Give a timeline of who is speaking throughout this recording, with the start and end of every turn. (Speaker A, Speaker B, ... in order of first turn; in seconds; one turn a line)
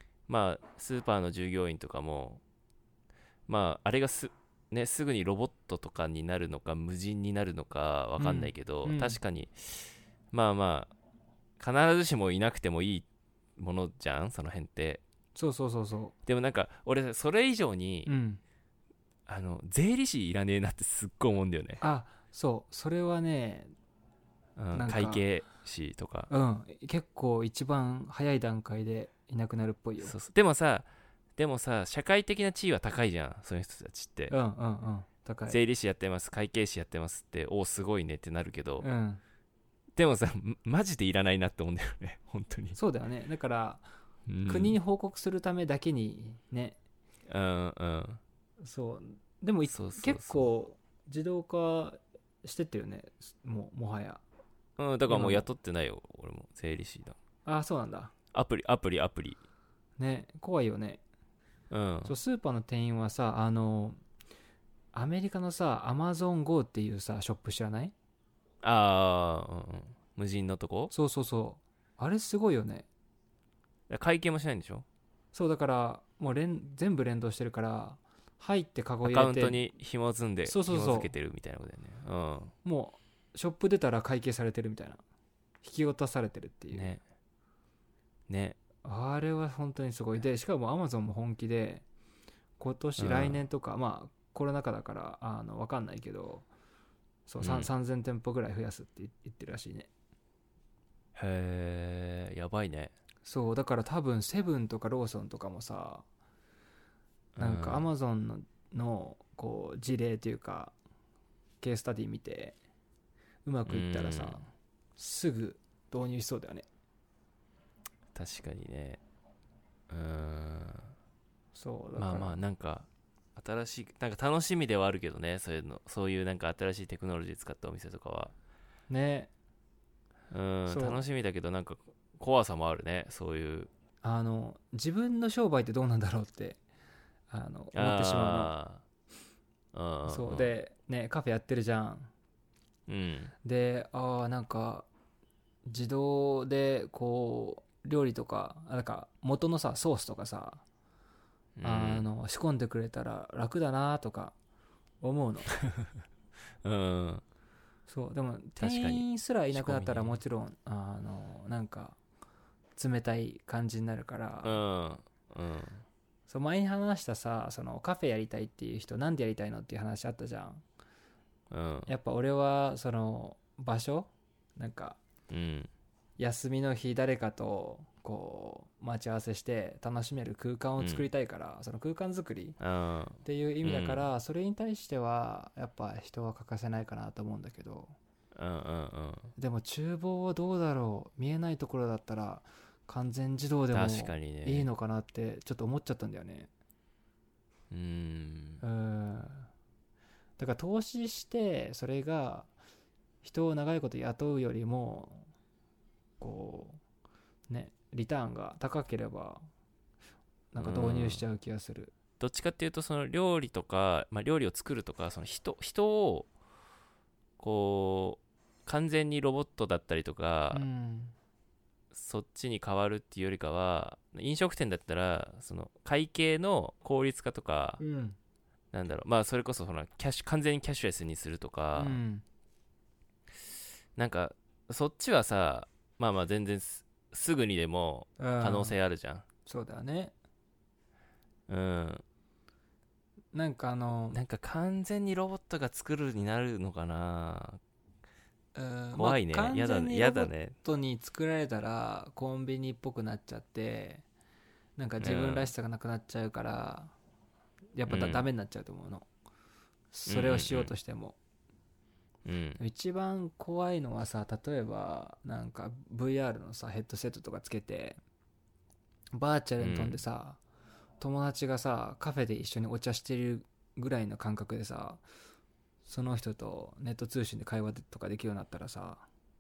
Speaker A: 0.3-2.4
Speaker A: 3.5-10.9
Speaker B: 8.2-9.2
Speaker A: 11.6-13.1
Speaker A: 13.6-15.0
Speaker B: 15.3-16.1
Speaker A: 16.2-18.1
Speaker B: 18.1-18.4
Speaker A: 19.3-21.8
Speaker B: 21.8-23.7
Speaker A: 24.6-26.3
Speaker B: 24.7-25.2
Speaker B: 26.3-30.1
Speaker A: 30.0-34.3
Speaker B: 34.3-35.6
Speaker A: 35.5-38.9
Speaker B: 38.8-39.2
Speaker A: 40.0-42.8
Speaker B: 42.7-43.9
Speaker A: 44.3-44.8
Speaker B: 44.4-46.8
Speaker A: 47.3-48.2
Speaker B: 48.6-54.2
Speaker A: 49.7-50.5
Speaker A: 54.8-57.1
Speaker B: 55.1-55.5
Speaker B: 57.4-58.1
Speaker A: 58.3-59.4
Speaker B: 60.0-61.0
Speaker A: 61.7-62.1
Speaker B: 62.0-64.0
Speaker B: 64.9-67.9
Speaker A: 68.6-70.9
Speaker B: 70.9-72.8
Speaker A: 73.9-74.8
Speaker B: 75.3-79.6
Speaker A: 79.0-82.5
Speaker B: 80.4-81.1
Speaker B: 82.6-85.0
Speaker B: 85.6-86.9
Speaker A: 86.7-87.0
Speaker A: 88.3-88.6
Speaker B: 88.8-91.8
Speaker B: 92.6-96.5
Speaker A: 93.0-93.4
Speaker B: 97.3-99.9
Speaker A: 97.4-97.7
Speaker A: 101.1-102.9
Speaker B: 103.2-106.0
Speaker A: 107.3-107.8
Speaker B: 107.4-110.7
Speaker B: 111.6-112.5
Speaker B: 113.4-116.6
Speaker A: 113.7-114.5
Speaker A: 118.1-119.0
Speaker A: 119.9-120.9
Speaker B: 121.5-122.4
Speaker A: 122.0-128.3
Speaker B: 128.9-129.3
Speaker A: 130.3-133.7
Speaker B: 130.7-131.0
Speaker B: 134.0-136.6
Speaker B: 137.3-138.5
Speaker A: 137.7-138.8
Speaker A: 139.7-140.5
Speaker B: 140.1-142.1
Speaker A: 142.9-143.3
Speaker B: 143.4-144.9
Speaker B: 145.6-150.6
Speaker A: 151.6-152.1
Speaker B: 151.6-154.3
Speaker B: 155.0-155.5
Speaker A: 156.6-157.2
Speaker B: 157.9-161.9
Speaker A: 158.6-160.2
Speaker B: 162.8-164.6
Speaker A: 164.4-165.8
Speaker B: 166.3-170.6
Speaker A: 171.5-171.9
Speaker B: 171.9-175.0
Speaker A: 175.3-175.7
Speaker B: 176.2-182.6
Speaker A: 180.8-181.0
Speaker A: 182.6-184.1
Speaker B: 183.2-187.9
Speaker A: 188.3-189.3
Speaker B: 189.3-196.5
Speaker A: 193.7-194.7
Speaker A: 197.7-198.6
Speaker B: 198.6-199.5
Speaker B: 200.4-202.5
Speaker B: 203.2-205.3
Speaker B: 206.2-206.8
Speaker B: 207.5-209.5
Speaker B: 210.5-211.9
Speaker A: 210.6-211.2
Speaker A: 212.2-216.3
Speaker A: 217.4-220.6
Speaker B: 220.5-221.1
Speaker A: 221.9-227.8
Speaker B: 227.8-228.2
Speaker A: 228.7-232.0
Speaker B: 231.8-232.2
Speaker A: 233.9-239.2
Speaker B: 238.2-238.8
Speaker B: 239.4-240.1
Speaker A: 241.5-242.0
Speaker B: 243.3-244.2
Speaker A: 244.1-247.6
Speaker B: 248.5-254.0
Speaker A: 248.9-250.6
Speaker B: 254.8-256.9
Speaker A: 255.0-255.5
Speaker B: 257.7-259.1
Speaker A: 257.9-258.3
Speaker B: 259.9-261.2
Speaker A: 260.1-260.7
Speaker A: 262.2-262.6
Speaker B: 262.6-268.0
Speaker B: 269.1-270.4
Speaker A: 269.6-270.0
Speaker B: 271.0-275.0
Speaker B: 275.8-279.1